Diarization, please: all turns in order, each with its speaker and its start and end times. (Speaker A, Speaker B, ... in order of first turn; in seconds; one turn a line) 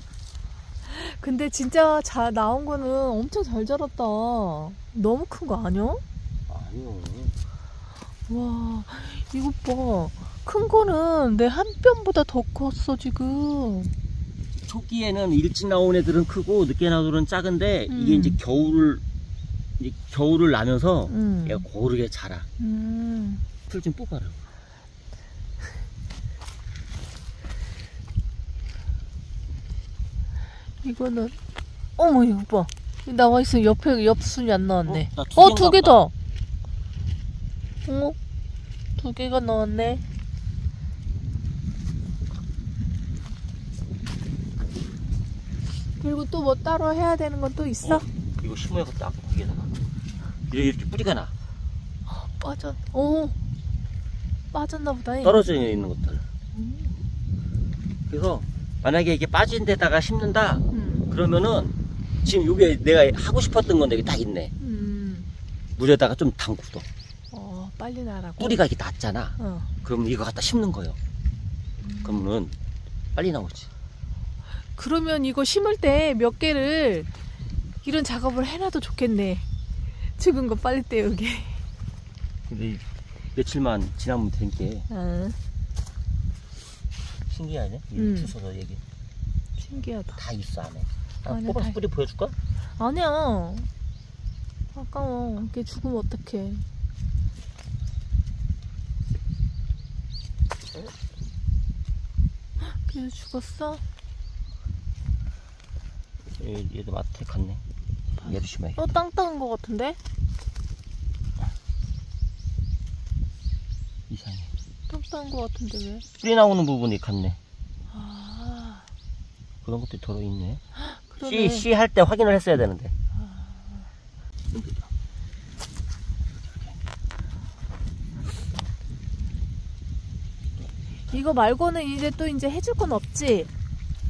Speaker A: 0.9-6.0
Speaker B: 6.5-7.4
Speaker A: 8.3-13.9
Speaker B: 14.6-19.0
Speaker A: 17.9-18.4
Speaker B: 19.8-22.5
Speaker A: 21.1-21.6
Speaker A: 22.6-23.4
Speaker B: 23.7-24.4
Speaker A: 30.8-31.4
Speaker A: 32.0-36.1
Speaker B: 34.9-36.0
Speaker A: 37.9-38.2
Speaker A: 39.0-40.0
Speaker A: 46.0-48.0
Speaker B: 47.8-49.7
Speaker B: 50.5-51.3
Speaker A: 52.1-53.4
Speaker A: 54.5-55.5
Speaker B: 55.2-56.2
Speaker A: 56.5-56.9
Speaker B: 58.1-64.5
Speaker A: 60.7-61.1
Speaker A: 64.6-65.3
Speaker B: 65.8-66.8
Speaker A: 67.3-68.6
Speaker B: 68.4-71.0
Speaker A: 69.4-69.7
Speaker A: 71.8-72.2
Speaker B: 72.0-72.5
Speaker B: 73.1-73.7
Speaker A: 74.7-77.1
Speaker A: 77.8-79.5
Speaker A: 80.2-81.6
Speaker B: 82.5-82.8
Speaker B: 83.3-84.9
Speaker A: 84.9-85.4
Speaker B: 87.3-88.8
Speaker A: 87.9-88.3
Speaker A: 89.6-90.2
Speaker B: 90.1-92.3
Speaker A: 91.3-91.8
Speaker A: 92.8-93.7
Speaker A: 94.7-96.6
Speaker A: 102.6-103.8
Speaker B: 106.3-107.6
Speaker B: 108.2-109.0
Speaker A: 108.2-110.0
Speaker B: 114.1-114.5
Speaker A: 114.9-116.0
Speaker B: 116.2-117.4
Speaker A: 117.9-118.8
Speaker B: 119.6-120.6
Speaker A: 120.8-121.7
Speaker B: 121.2-122.9
Speaker A: 123.1-123.9
Speaker B: 124.5-124.9
Speaker A: 131.1-133.5